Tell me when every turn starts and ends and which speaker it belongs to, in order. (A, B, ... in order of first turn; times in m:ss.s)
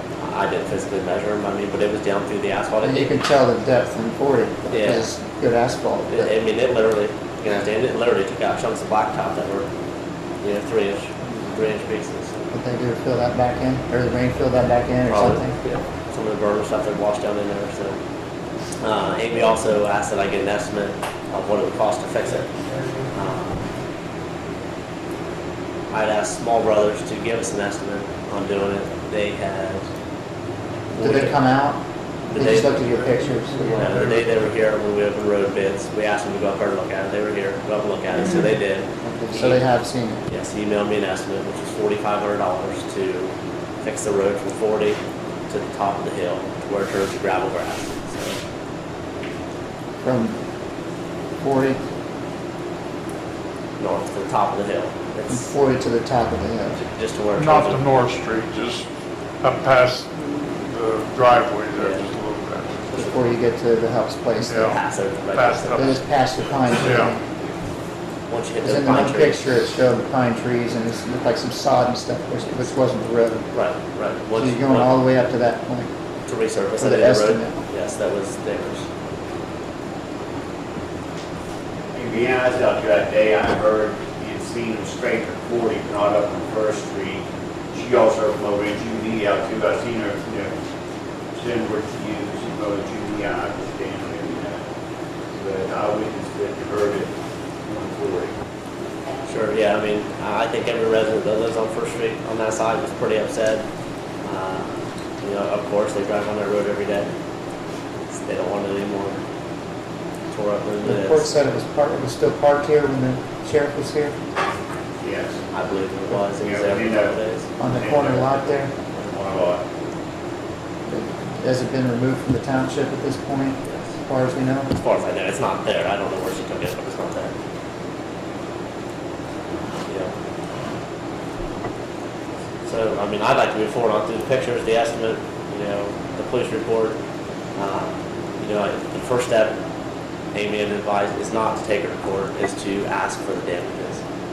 0:00.2-0:03.2 A
0:02.8-0:06.3 B
0:04.7-0:05.0 A
0:06.1-0:09.6 A
0:10.4-0:12.4 A
0:12.5-0:15.6 B
0:15.0-0:18.0 A
0:18.8-0:22.5 A
0:23.1-0:23.6 A
0:25.9-0:29.9 A
0:30.9-0:31.4 A
0:30.9-0:31.8 B
0:32.3-0:32.8 A
0:32.3-0:33.9 B
0:33.6-0:34.2 C
0:33.8-0:39.6 A
0:39.0-0:40.2 B
0:40.3-0:45.0 A
0:45.5-0:48.4 A
0:50.0-0:50.4 B
0:51.4-0:51.8 B
0:53.8-0:55.5 A
0:55.3-0:56.8 B
0:56.7-0:57.8 A
0:57.3-0:58.9 C
0:59.4-1:02.9 C
1:01.8-1:02.1 A
1:02.9-1:04.7 B
1:04.4-1:06.0 C
1:04.6-1:05.9 A
1:05.7-1:07.2 B
1:06.8-1:07.1 C
1:08.3-1:09.7 A
1:08.6-1:13.5 B
1:13.5-1:15.0 A
1:14.3-1:15.9 B
1:16.2-1:18.9 A
1:16.8-1:17.6 B
1:21.9-1:30.5 D
1:31.3-1:34.6 D
1:35.3-1:37.1 D
1:37.6-1:38.4 D
1:39.2-1:43.6 A
1:44.2-1:47.1 A
1:48.1-1:49.2 A
1:50.3-1:51.3 A
1:50.8-1:54.2 B
1:55.0-1:55.4 D
1:55.5-1:57.5 A
1:56.4-1:57.2 D
1:57.6-1:58.7 B
1:57.7-1:58.4 D
1:59.0-1:59.6 D
2:00.9-2:04.7 B
2:04.7-2:07.3 A
2:09.9-2:10.1 A
2:12.6-2:17.0 A
2:17.5-2:19.6 A
2:20.3-2:24.0 A